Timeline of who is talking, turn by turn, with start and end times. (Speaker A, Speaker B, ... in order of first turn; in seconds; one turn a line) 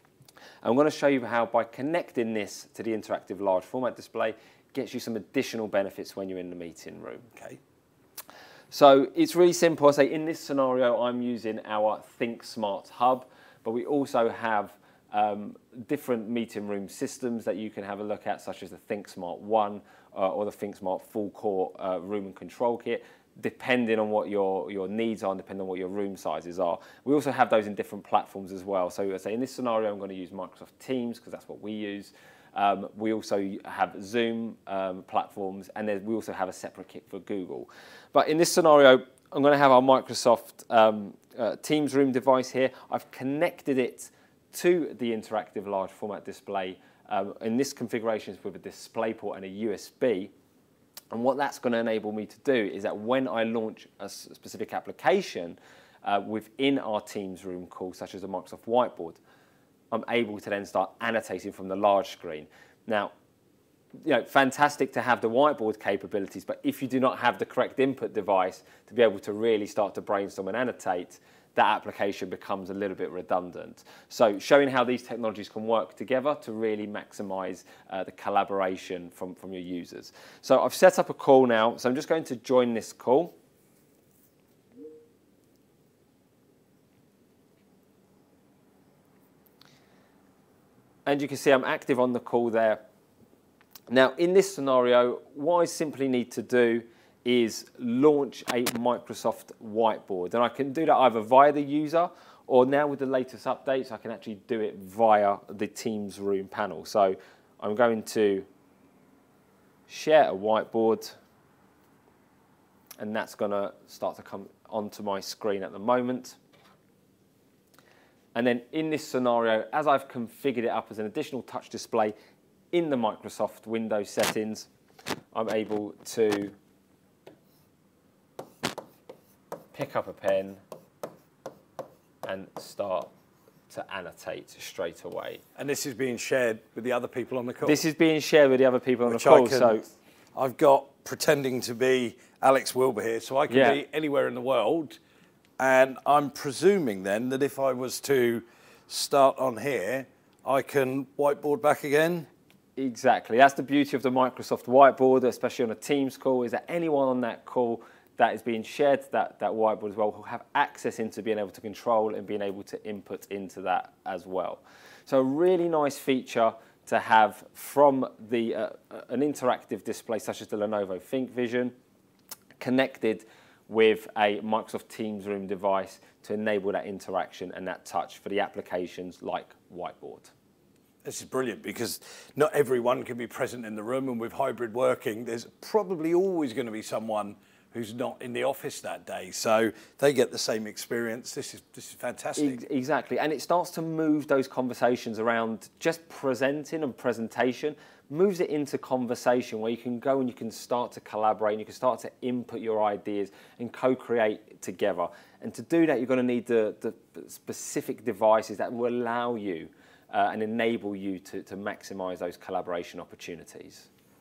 Speaker A: 0.6-7.3
Speaker B: 7.3-7.6
Speaker A: 8.7-50.3
Speaker A: 51.1-59.2
Speaker A: 59.9-63.1
Speaker A: 64.0-83.3
Speaker A: 91.1-92.8
Speaker A: 93.9-108.5
Speaker A: 109.9-111.2
Speaker A: 113.0-116.4
Speaker A: 118.3-122.1
Speaker A: 122.7-124.7
Speaker A: 125.3-126.5
Speaker A: 129.7-130.6
Speaker A: 132.2-133.1
Speaker A: 133.7-135.4
Speaker B: 135.6-137.8
Speaker A: 137.6-139.9
Speaker B: 139.1-139.8
Speaker B: 140.3-145.0
Speaker A: 143.5-143.8
Speaker B: 145.6-152.3
Speaker A: 152.8-171.7
Speaker A: 172.6-180.3
Speaker B: 181.0-192.6
Speaker A: 192.4-213.9